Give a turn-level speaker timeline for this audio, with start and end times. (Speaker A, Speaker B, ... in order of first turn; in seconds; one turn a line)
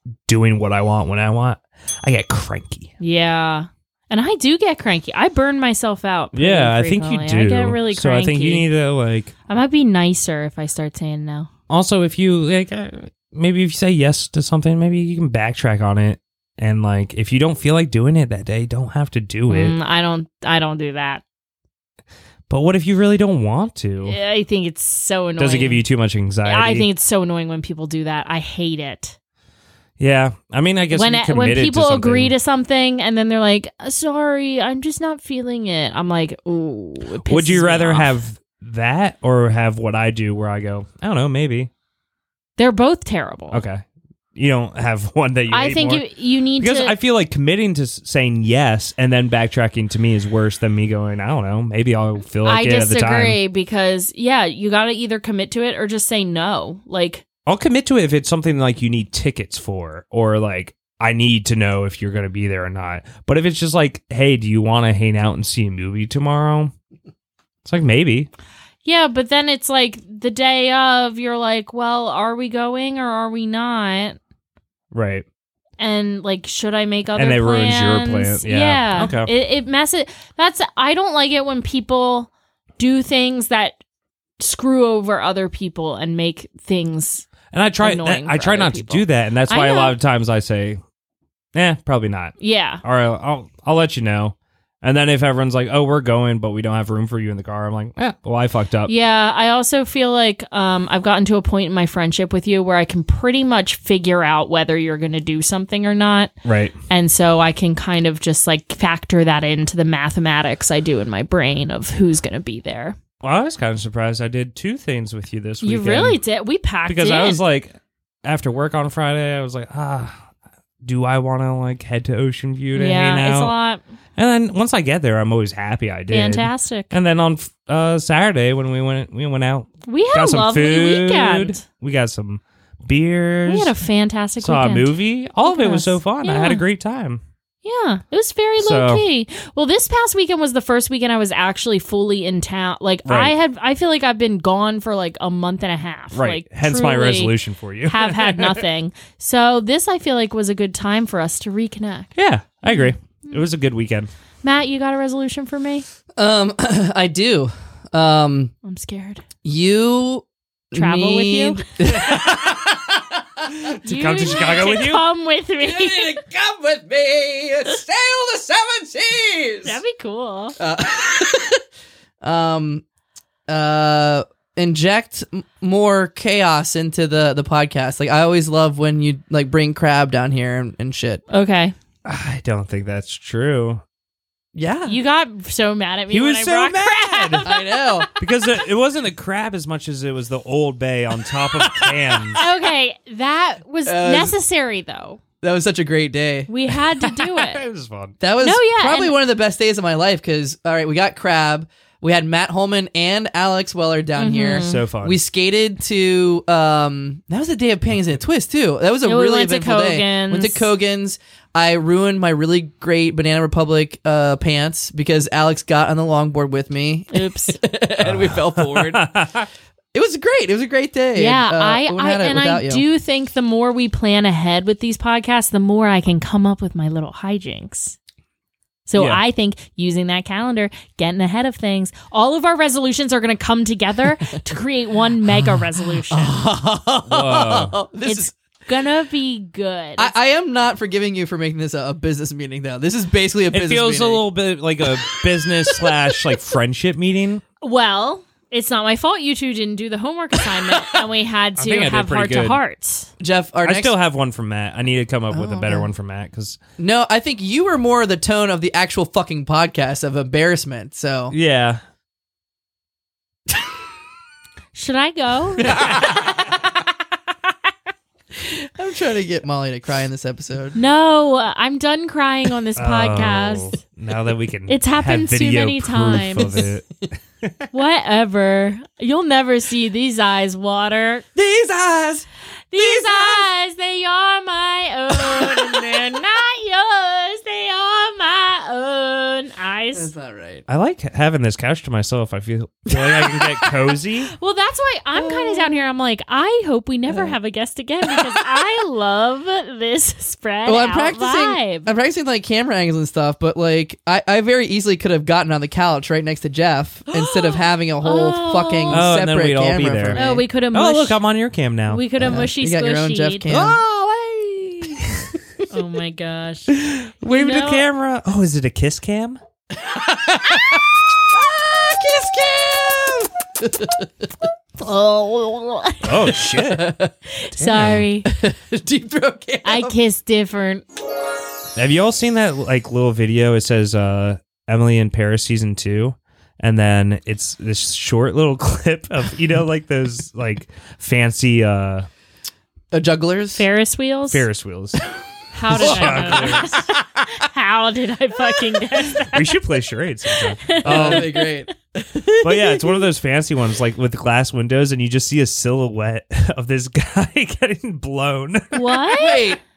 Speaker A: 0.3-2.9
Speaker B: 3.0-8.7
Speaker A: 6.3-9.3
Speaker B: 9.5-11.5
Speaker A: 11.7-19.8
Speaker B: 19.5-21.2
Speaker A: 22.5-24.2
Speaker B: 24.1-25.9
Speaker A: 25.4-26.9
Speaker B: 26.4-29.1
Speaker A: 30.0-32.3
Speaker B: 30.9-38.2
Speaker A: 37.2-41.7
Speaker B: 42.6-43.6
Speaker A: 43.5-43.8
Speaker A: 44.4-46.1
Speaker B: 45.5-46.9
Speaker A: 46.6-53.4
Speaker B: 52.5-57.2
Speaker A: 57.5-66.7
Speaker A: 67.7-68.3
Speaker B: 68.8-74.2
Speaker A: 74.9-75.2
Speaker B: 75.8-83.8
Speaker A: 77.2-79.3
Speaker B: 84.4-90.0
Speaker A: 87.5-90.8
Speaker A: 91.5-98.9
Speaker B: 92.4-92.8
Speaker B: 98.9-106.3
Speaker A: 106.5-106.8
Speaker B: 106.9-113.0
Speaker A: 113.2-116.2
Speaker B: 115.6-117.4
Speaker A: 116.9-120.2
Speaker A: 120.8-123.5
Speaker B: 122.7-123.8
Speaker A: 124.2-133.7
Speaker B: 126.1-126.9
Speaker B: 129.9-131.6
Speaker B: 133.5-134.9
Speaker A: 134.4-137.2
Speaker B: 135.4-136.6
Speaker B: 137.6-147.3
Speaker A: 138.6-139.1
Speaker A: 143.1-143.3
Speaker A: 146.1-148.6
Speaker B: 147.9-152.1
Speaker A: 152.2-154.1
Speaker B: 152.7-153.4
Speaker B: 154.4-155.8
Speaker C: 156.2-158.5
Speaker B: 158.6-159.2
Speaker C: 159.4-163.4
Speaker B: 160.7-161.7
Speaker A: 161.9-162.7
Speaker A: 163.4-165.1
Speaker B: 163.8-166.2
Speaker C: 165.6-169.8
Speaker B: 169.6-170.6
Speaker C: 170.6-171.6
Speaker C: 172.2-172.8
Speaker C: 173.5-181.2
Speaker B: 181.3-181.8
Speaker A: 182.1-183.8
Speaker C: 184.6-185.0
Speaker B: 184.9-188.1
Speaker A: 186.1-187.5
Speaker C: 187.4-188.1
Speaker A: 188.2-192.4
Speaker C: 191.4-192.5
Speaker B: 192.3-195.2
Speaker C: 193.9-194.4
Speaker C: 195.4-196.5
Speaker B: 196.5-197.6
Speaker A: 197.0-198.2
Speaker C: 198.2-219.1
Speaker B: 198.4-199.2
Speaker B: 204.2-204.8
Speaker A: 204.6-205.2
Speaker B: 209.1-210.7
Speaker B: 217.1-217.6
Speaker A: 218.0-219.5
Speaker C: 219.9-222.8
Speaker B: 221.2-228.0
Speaker B: 228.9-236.4
Speaker A: 229.0-229.2
Speaker C: 236.1-238.3
Speaker A: 237.1-237.8
Speaker B: 238.1-240.1
Speaker C: 240.0-244.2
Speaker A: 243.5-247.4
Speaker B: 247.6-253.1
Speaker A: 251.6-252.6
Speaker C: 253.2-253.9
Speaker A: 253.7-256.6
Speaker C: 255.3-255.9
Speaker C: 256.8-261.4
Speaker A: 261.3-261.8
Speaker B: 264.7-266.0
Speaker C: 265.6-266.5
Speaker C: 268.3-270.8
Speaker B: 270.8-273.8
Speaker A: 272.8-277.7
Speaker B: 274.7-276.6
Speaker C: 276.4-276.7
Speaker B: 277.7-281.2
Speaker C: 281.4-283.5
Speaker B: 282.7-290.1
Speaker C: 285.1-286.1
Speaker C: 289.9-290.6
Speaker A: 290.7-294.3
Speaker B: 294.3-301.9
Speaker C: 295.1-295.8
Speaker C: 297.1-297.3
Speaker C: 298.1-298.6
Speaker C: 300.6-310.4
Speaker B: 307.1-309.1
Speaker A: 308.9-312.0
Speaker B: 310.1-311.2
Speaker B: 311.9-313.5
Speaker C: 312.2-313.8
Speaker A: 313.5-315.3
Speaker B: 315.7-317.9
Speaker A: 316.7-319.4
Speaker C: 319.7-324.3
Speaker B: 324.8-326.3
Speaker A: 326.0-326.9
Speaker C: 326.3-327.1
Speaker B: 327.3-328.3
Speaker A: 327.5-328.1
Speaker C: 328.3-329.9
Speaker B: 329.6-330.8
Speaker A: 331.8-342.1
Speaker C: 342.9-343.6
Speaker B: 343.6-344.5
Speaker A: 344.3-345.0
Speaker B: 345.5-349.6
Speaker A: 345.7-346.8
Speaker C: 345.8-347.3
Speaker C: 348.5-348.8
Speaker A: 349.3-351.3
Speaker B: 350.4-351.7
Speaker C: 350.8-353.1
Speaker A: 352.4-359.0
Speaker B: 358.7-359.6
Speaker C: 359.1-359.6